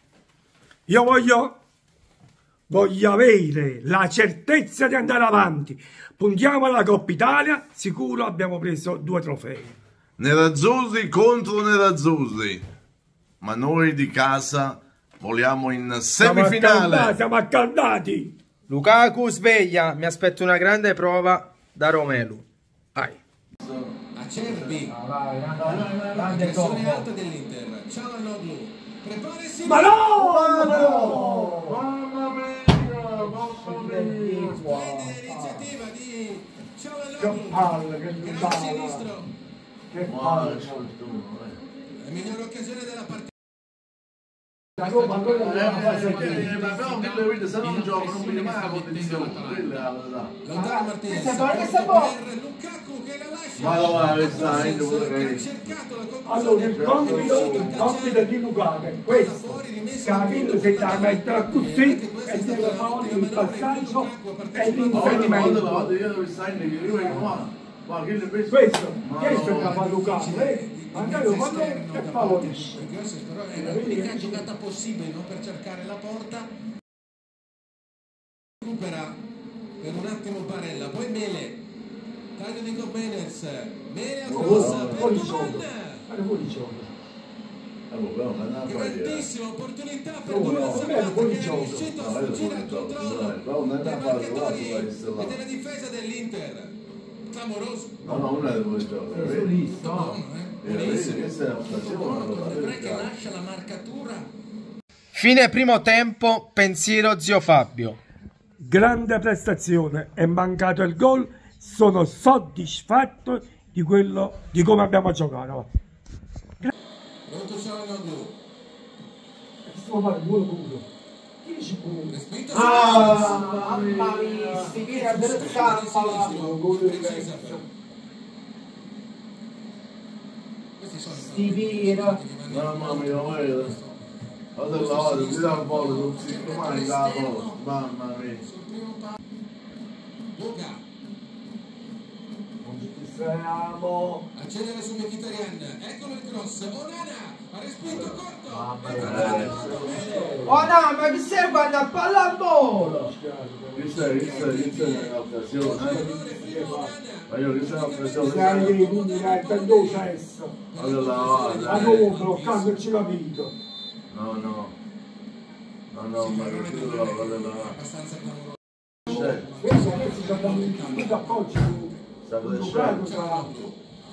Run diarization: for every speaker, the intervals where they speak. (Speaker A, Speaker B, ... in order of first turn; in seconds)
Speaker A: 0.9-1.5, 2.7-9.8, 16.2-18.3, 29.6-31.8, 37.2-39.1, 39.9-40.9, 44.8-46.5, 56.2-66.0, 67.0-67.4, 68.5-72.9, 73.5-74.5, 84.3-86.9, 90.2-91.9, 108.6-115.7, 119.7-120.9, 121.4-122.2, 126.2-127.6, 142.6-144.2, 148.5-150.7, 152.7-154.8, 155.7-156.9, 158.2-160.6, 161.7-163.6, 169.1-173.5
Speaker B: 10.2-12.6, 13.4-17.2, 23.6-24.7, 25.6-26.4, 30.1-34.6, 40.0-41.6, 45.3-50.4, 53.6-55.5, 56.6-57.9, 64.9-70.0, 84.3-85.2, 87.9-89.3, 90.5-95.4, 98.0-99.6, 100.6-103.1, 122.7-124.6, 132.5-133.8, 134.6-138.4, 147.9-148.2, 149.0-150.4, 153.8-156.1, 157.3-158.8, 160.8-162.1, 164.1-164.8, 165.9-167.8, 169.1-169.5, 172.2-173.1
Speaker C: 18.7-23.2, 24.7-27.1, 33.1-35.7, 50.5-52.2, 99.1-100.2, 105.1-108.0, 122.5-126.4, 131.1-132.2, 148.8-153.1
Speaker D: 24.1-24.9, 26.1-30.1, 34.7-39.3, 42.0-43.3, 44.9-49.9, 50.4-58.4, 59.0-65.6, 69.2-76.5, 78.6-79.2, 79.8-81.6, 82.4-85.7, 88.7-96.8, 97.3-98.1, 99.6-104.3, 117.3-118.3, 122.1-123.7, 124.7-127.6, 130.8-134.0, 134.7-137.6, 138.4-139.2, 140.3-140.8, 144.3-150.4, 154.2-160.1, 160.7-162.8, 166.2-171.5, 172.8-173.8